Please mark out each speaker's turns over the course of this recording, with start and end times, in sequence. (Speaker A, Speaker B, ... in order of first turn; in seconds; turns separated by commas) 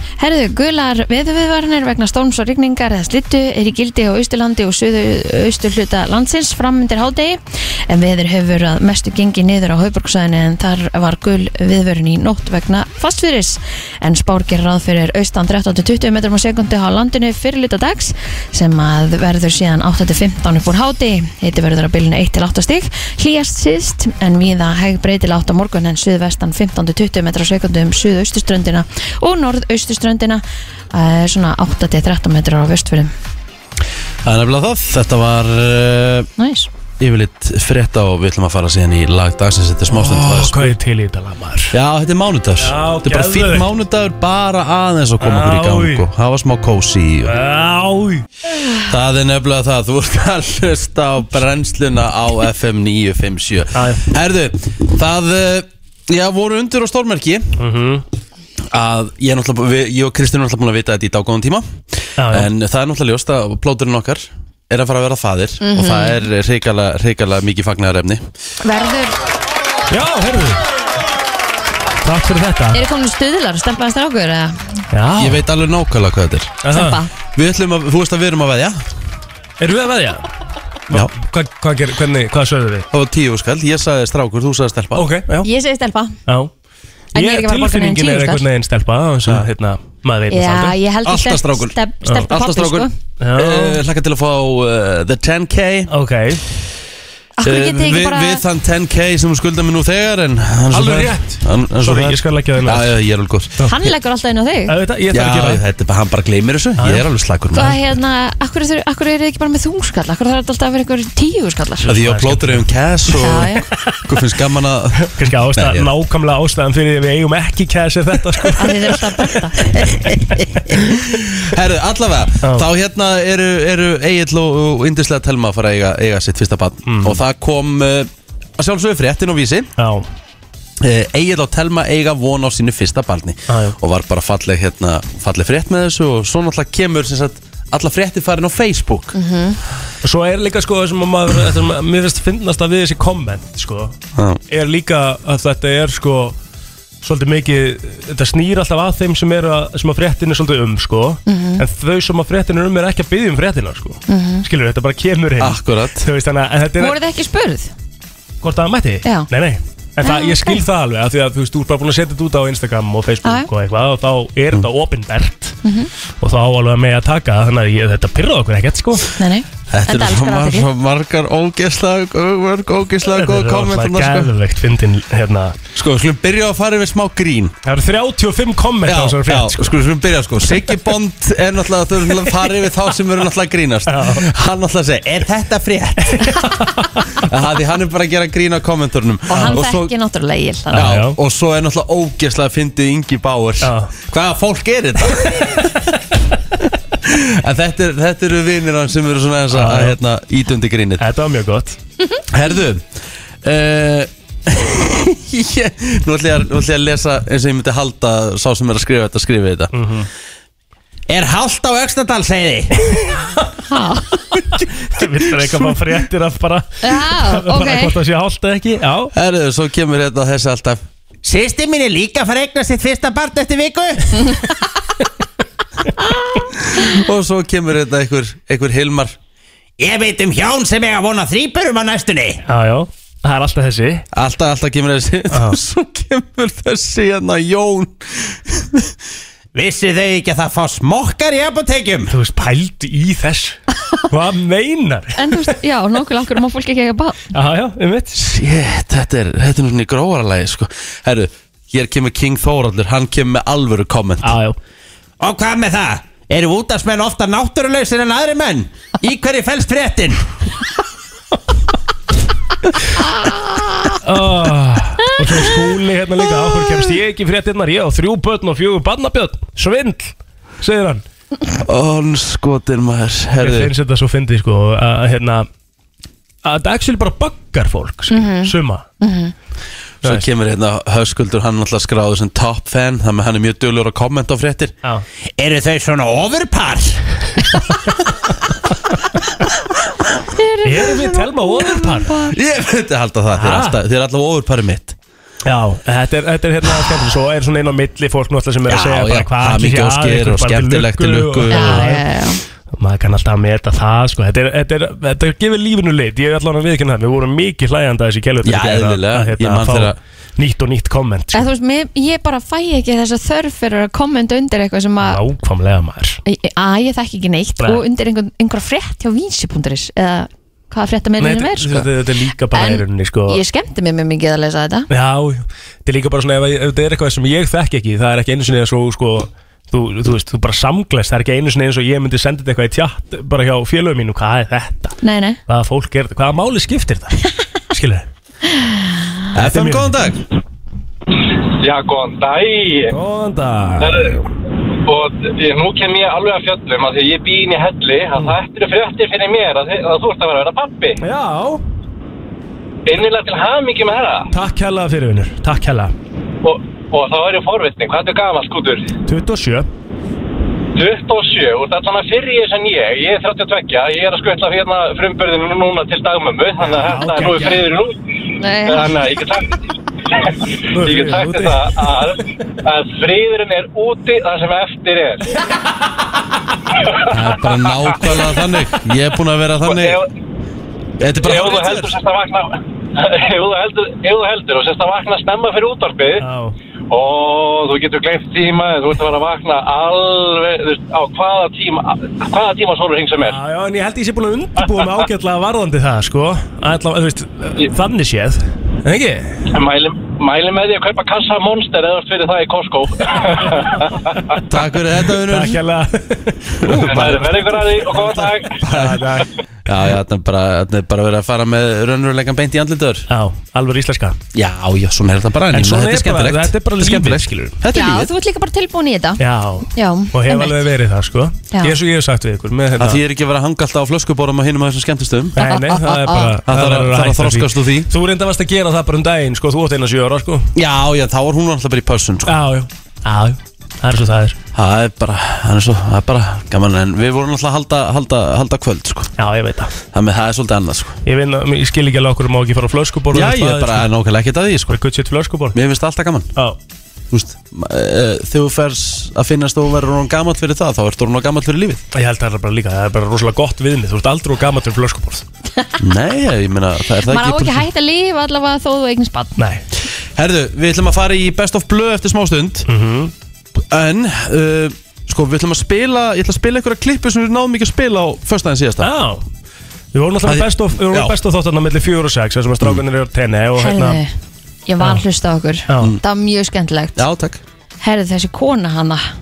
Speaker A: 0.2-33.1, Speaker B: 34.2-36.3, Speaker A: 36.4-36.7, Speaker B: 37.0-40.8, Speaker C: 39.9-41.7, Speaker B: 41.7-47.3, Speaker C: 42.6-43.7, Speaker C: 45.2-46.1, Speaker C: 47.2-48.2, Speaker B: 48.9-57.6, Speaker C: 53.7-54.1, Speaker C: 57.6-58.0, Speaker B: 58.7-68.2, Speaker C: 62.2-62.5, Speaker A: 65.6-66.2, Speaker A: 68.6-69.2, Speaker C: 69.9-70.6, Speaker C: 72.0-72.8, Speaker A: 72.7-74.8, Speaker C: 74.9-75.4, Speaker B: 75.2-76.6, Speaker C: 76.6-77.0, Speaker A: 76.7-77.1, Speaker B: 77.3-78.8, Speaker C: 79.6-80.2, Speaker C: 80.9-82.9, Speaker B: 82.9-85.1, Speaker C: 84.9-85.5, Speaker A: 85.4-86.2, Speaker A: 87.1-88.4, Speaker C: 87.1-90.8, Speaker A: 90.3-92.9, Speaker B: 91.0-95.9, Speaker C: 93.2-93.8, Speaker C: 95.9-96.4, Speaker A: 97.4-98.4, Speaker B: 97.4-103.6, Speaker C: 100.7-102.9, Speaker C: 103.6-103.9, Speaker A: 103.6-104.7, Speaker C: 104.7-105.6, Speaker B: 105.1-107.8, Speaker C: 106.8-107.0, Speaker A: 107.5-111.9, Speaker C: 111.8-112.7, Speaker B: 111.9-115.9, Speaker A: 113.1-113.7, Speaker C: 115.1-119.3, Speaker A: 118.6-120.5, Speaker C: 120.7-121.1, Speaker B: 121.1-129.7, Speaker C: 126.8-127.2, Speaker C: 129.8-130.1, Speaker B: 130.8-139.1, Speaker C: 133.5-133.8, Speaker A: 139.1-139.6, Speaker C: 140.0-143.9, Speaker B: 144.2-144.4, Speaker C: 144.5-146.3, Speaker C: 147.0-157.0, Speaker A: 151.3-151.6, Speaker A: 154.1-154.4, Speaker B: 155.4-156.1, Speaker A: 156.8-157.7, Speaker C: 158.4-165.6, Speaker A: 160.0-160.6, Speaker A: 165.6-165.9, Speaker C: 166.2-169.1, Speaker A: 169.1-170.7, Speaker B: 169.7-174.3, Speaker C: 173.1-175.6, Speaker B: 175.7-177.5, Speaker C: 177.6-179.7, Speaker B: 178.8-186.3, Speaker C: 183.9-184.2, Speaker C: 186.2-187.1, Speaker B: 187.2-189.9, Speaker A: 189.3-190.8, Speaker C: 190.7-191.2, Speaker B: 190.7-195.7, Speaker C: 193.6-193.9, Speaker B: 197.0-201.0, Speaker C: 199.5-200.0, Speaker C: 201.0-201.8, Speaker B: 202.3-202.9, Speaker B: 203.4-209.7, Speaker C: 209.7-210.1, Speaker D: 211.1-212.7, Speaker C: 212.8-213.4, Speaker A: 213.7-214.2, Speaker C: 214.5-219.1, Speaker A: 216.8-217.9, Speaker B: 219.1-220.8, Speaker D: 221.2-224.2, Speaker B: 226.7-229.2, Speaker D: 229.8-232.4, Speaker C: 232.4-234.0, Speaker B: 234.1-238.9, Speaker C: 235.3-235.6, Speaker D: 239.5-242.1, Speaker C: 242.1-245.5, Speaker A: 245.2-247.2, Speaker C: 247.3-248.2, Speaker B: 248.2-254.3, Speaker C: 254.2-254.6, Speaker D: 255.2-260.2, Speaker C: 264.0-271.0, Speaker B: 271.6-273.7, Speaker C: 273.4-275.5, Speaker C: 276.4-278.8, Speaker A: 278.1-279.3, Speaker B: 280.0-284.7, Speaker D: 285.4-287.0, Speaker A: 290.3-292.3, Speaker C: 290.6-292.1, Speaker B: 292.1-295.0, Speaker C: 293.4-293.8, Speaker C: 295.4-302.0, Speaker B: 298.7-301.9, Speaker A: 301.5-302.4, Speaker C: 302.7-311.5, Speaker B: 308.4-310.0, Speaker A: 311.3-315.2, Speaker C: 315.0-316.2, Speaker A: 316.2-321.9, Speaker C: 321.2-323.4, Speaker A: 322.5-324.9, Speaker C: 324.9-338.1, Speaker A: 335.0-335.4, Speaker B: 339.3-340.2, Speaker C: 339.4-339.9, Speaker E: 341.6-342.9, Speaker C: 342.9-344.2, Speaker E: 343.8-344.2, Speaker E: 344.8-351.0, Speaker C: 351.0-351.6, Speaker E: 352.9-354.3, Speaker C: 354.3-355.9, Speaker E: 356.4-358.9, Speaker C: 359.1-359.7, Speaker E: 360.7-368.0, Speaker C: 366.7-367.6, Speaker A: 368.4-368.9, Speaker E: 368.6-375.2, Speaker C: 370.7-371.8, Speaker E: 376.8-377.0, Speaker B: 377.1-380.0, Speaker E: 377.6-377.9, Speaker E: 379.6-380.1, Speaker B: 381.0-382.0, Speaker E: 381.2-386.2, Speaker C: 386.2-386.6, Speaker E: 386.9-393.4, Speaker C: 393.2-399.4, Speaker E: 399.5-404.3, Speaker B: 404.4-405.6, Speaker C: 405.2-407.8, Speaker B: 406.6-407.4, Speaker E: 406.8-408.6, Speaker B: 408.6-413.1, Speaker C: 408.6-409.3, Speaker C: 413.1-414.2, Speaker B: 414.3-418.1, Speaker C: 415.5-417.5, Speaker A: 417.7-419.2, Speaker C: 419.2-423.0, Speaker A: 419.7-420.5, Speaker B: 422.8-425.4, Speaker C: 425.4-430.5, Speaker A: 425.5-426.0, Speaker B: 426.4-427.9, Speaker B: 430.5-432.4, Speaker C: 432.3-434.4, Speaker B: 434.5-439.1, Speaker C: 439.2-439.7, Speaker B: 439.9-441.0, Speaker C: 441.1-443.9, Speaker B: 443.1-444.8, Speaker C: 444.7-445.6, Speaker B: 445.5-446.3, Speaker B: 447.1-451.8, Speaker C: 451.9-455.2, Speaker B: 455.8-457.7, Speaker A: 457.0-459.4, Speaker C: 459.4-459.6, Speaker B: 460.1-462.7, Speaker C: 462.7-463.1, Speaker B: 463.7-468.9, Speaker C: 468.8-469.2, Speaker C: 469.9-474.0, Speaker B: 470.2-471.1, Speaker A: 473.6-474.1, Speaker A: 474.7-477.0, Speaker C: 475.7-475.9, Speaker B: 476.9-477.4, Speaker A: 477.8-479.0